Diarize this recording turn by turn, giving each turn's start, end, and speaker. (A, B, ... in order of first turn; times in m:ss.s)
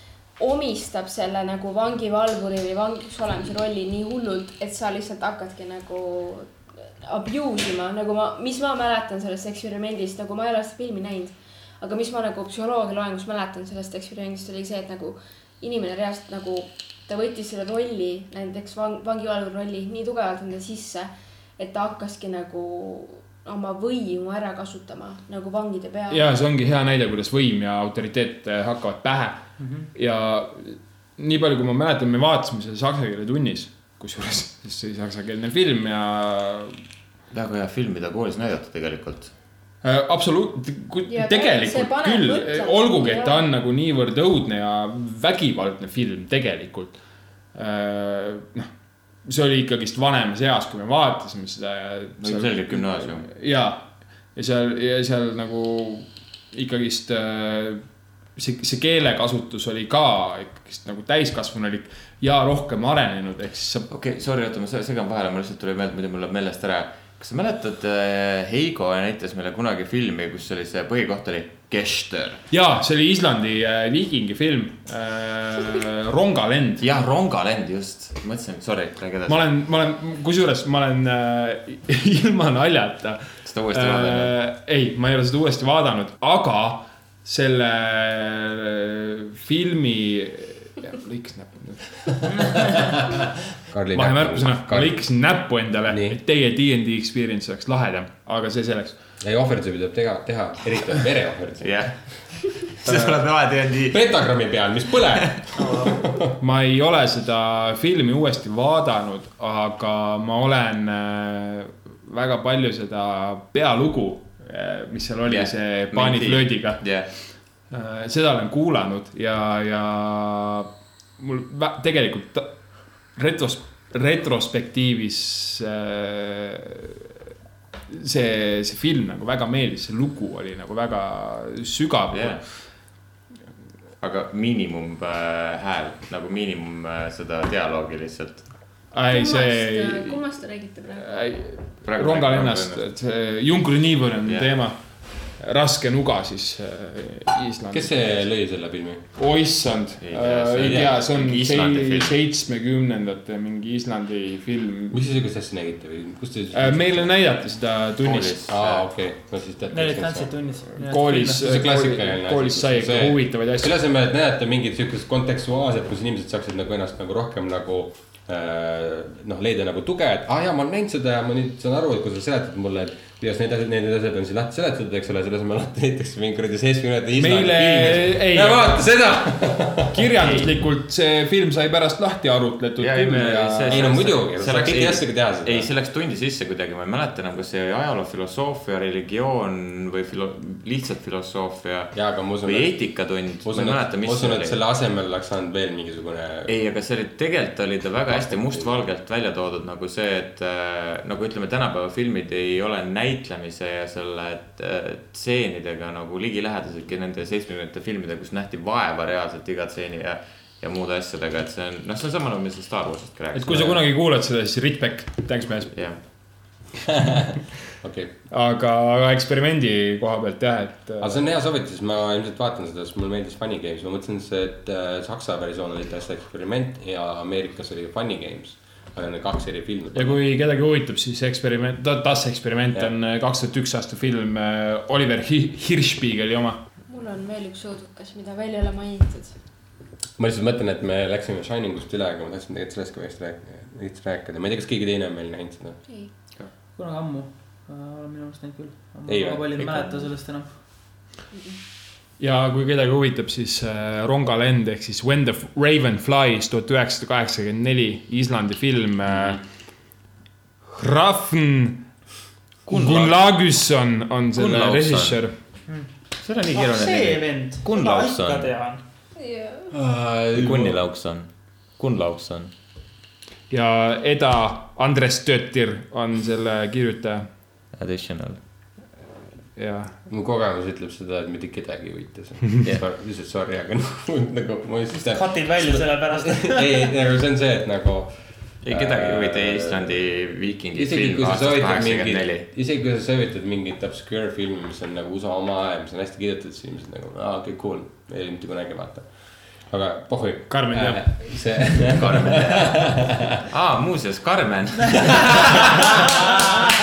0:00.4-0:26.2 A
0:26.1-0:36.8 B
0:29.6-0:29.9 C
0:37.3-0:39.3 D
0:39.8-0:47.0 B
0:41.1-0:43.5 A
0:47.5-0:48.7 B
0:49.2-0:57.8 B
0:52.2-0:53.3 D
0:58.4-1:03.9 B
1:03.9-1:12.4 D
1:12.5-1:16.8 B
1:16.8-1:19.5 D
1:19.3-1:31.9 B
1:23.5-1:24.3 D
1:32.4-1:32.8 E
1:33.7-1:35.0 E
1:33.9-1:39.0 B
1:35.9-1:36.2 E
1:39.2-1:41.9 E
1:41.6-1:44.2 D
1:43.9-1:46.2 E
1:45.6-1:45.9 C
1:46.4-1:57.0 B
1:55.3-1:57.1 D
1:57.7-2:07.1 B
2:07.9-2:12.4 B
2:12.1-2:12.4 D
2:14.0-2:18.5 D
2:18.9-2:20.2 B
2:19.1-2:21.4 A
2:21.0-2:28.0 B
2:21.8-2:22.8 D
2:27.7-2:29.0 E
2:29.2-2:35.0 B
2:30.0-2:32.2 D
2:34.9-2:37.1 E
2:36.5-2:38.4 B
2:38.0-2:38.8 D
2:38.5-2:40.3 E
2:39.7-2:41.4 C
2:40.8-2:43.7 B
2:41.2-3:00.1 E
2:57.2-2:58.9 B
2:59.9-3:03.9 B
3:02.8-3:14.6 D
3:03.7-3:05.7 E
3:11.9-3:12.8 E
3:13.4-3:16.5 E
3:16.5-3:33.8 D
3:18.1-3:18.7 E
3:33.3-3:35.7 B
3:35.7-3:36.0 D
3:37.0-3:38.1 E
3:38.3-3:41.3 B
3:41.0-3:50.2 E
3:49.9-3:56.6 B
3:56.9-3:59.4 A
4:00.2-4:05.8 E
4:06.8-4:10.5 C
4:09.1-4:09.5 E
4:09.6-4:10.1 D
4:12.2-4:19.4 B
4:20.7-4:21.8 B
4:22.7-4:25.3 B
4:22.7-4:23.2 D
4:24.4-4:25.2 D
4:26.2-4:28.5 D
4:26.5-4:28.8 C
4:29.2-4:29.7 A
4:29.7-4:30.8 E
4:30.3-4:32.5 D
4:33.5-4:37.3 B
4:37.8-4:38.4 D
4:39.6-4:40.0 B
4:40.1-4:50.1 E
4:44.9-4:46.9 C
4:48.6-4:52.5 D
4:50.8-4:59.1 E
4:59.7-5:03.2 E
5:00.5-5:01.1 B
5:01.9-5:06.4 D
5:05.3-5:05.7 E